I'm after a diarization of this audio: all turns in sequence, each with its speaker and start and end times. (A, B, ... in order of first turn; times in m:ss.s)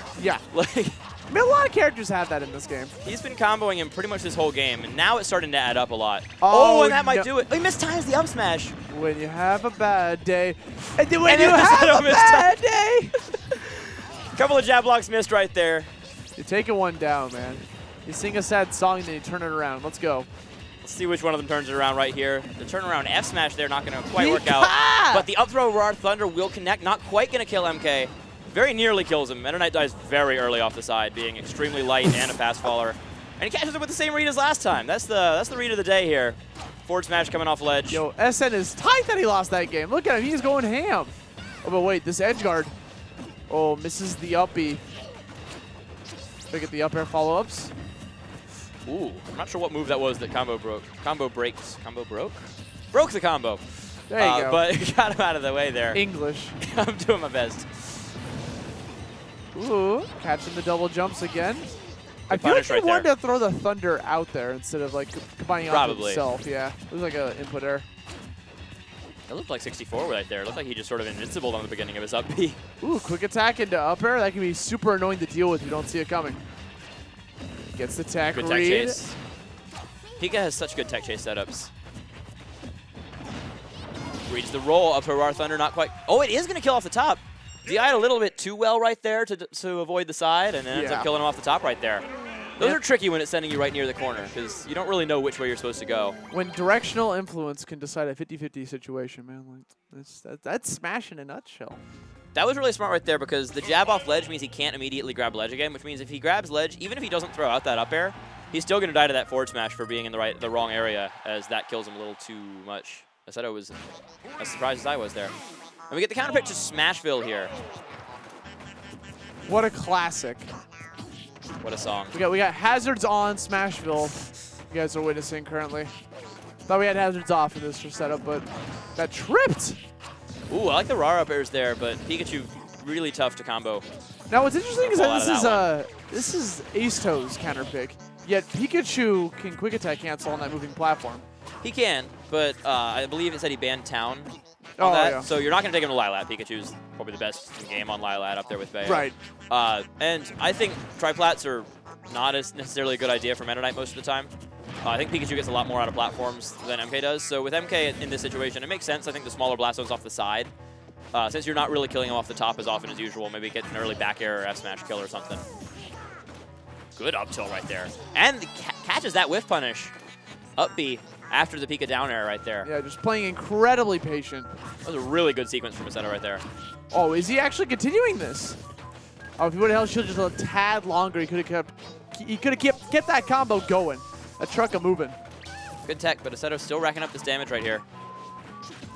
0:00.2-0:00.4 A
0:00.5-0:01.0 B
0:01.3-0:02.9 A
0:03.0-0:08.8 B
0:06.4-0:07.3 A
0:08.9-0:13.1 A
0:11.2-0:12.5 B
0:13.3-0:15.9 B
0:16.4-0:20.3 A
0:20.8-0:38.0 B
0:24.1-0:25.3 A
0:37.9-0:42.7 A
0:43.5-0:44.8 A
0:46.5-0:47.7 A
0:48.8-0:56.0 B
0:54.1-0:54.6 A
0:55.9-0:56.6 A
0:56.6-0:58.1 B
0:59.5-1:01.7 A
1:02.3-1:03.1 B
1:02.3-1:07.8 A
1:05.7-1:06.2 B
1:09.3-1:12.6 B
1:12.8-1:16.4 A
1:17.7-1:19.0 A
1:18.3-1:19.2 B
1:20.2-1:21.7 B
1:24.3-1:32.0 B
1:30.7-1:31.1 A
1:32.6-1:36.2 B
1:36.3-1:41.8 A
1:42.3-1:53.8 B
1:54.4-1:55.3 B
1:55.9-1:57.5 B
1:59.4-2:00.5 A
2:01.6-2:02.1 B
2:02.1-2:04.2 A
2:04.7-2:05.9 A
2:06.6-2:09.8 A
2:10.5-2:13.8 B
2:14.3-2:21.2 A
2:14.7-2:15.7 B
2:21.6-2:34.3 B
2:24.8-2:25.3 A
2:28.8-2:29.1 A
2:34.8-2:40.5 B
2:41.1-2:45.4 B
2:47.0-2:49.9 B
2:50.6-2:52.7 B
2:52.6-2:54.5 A
2:54.8-2:56.4 B
2:56.9-2:58.6 A
2:59.4-3:05.2 A
3:05.8-3:07.8 B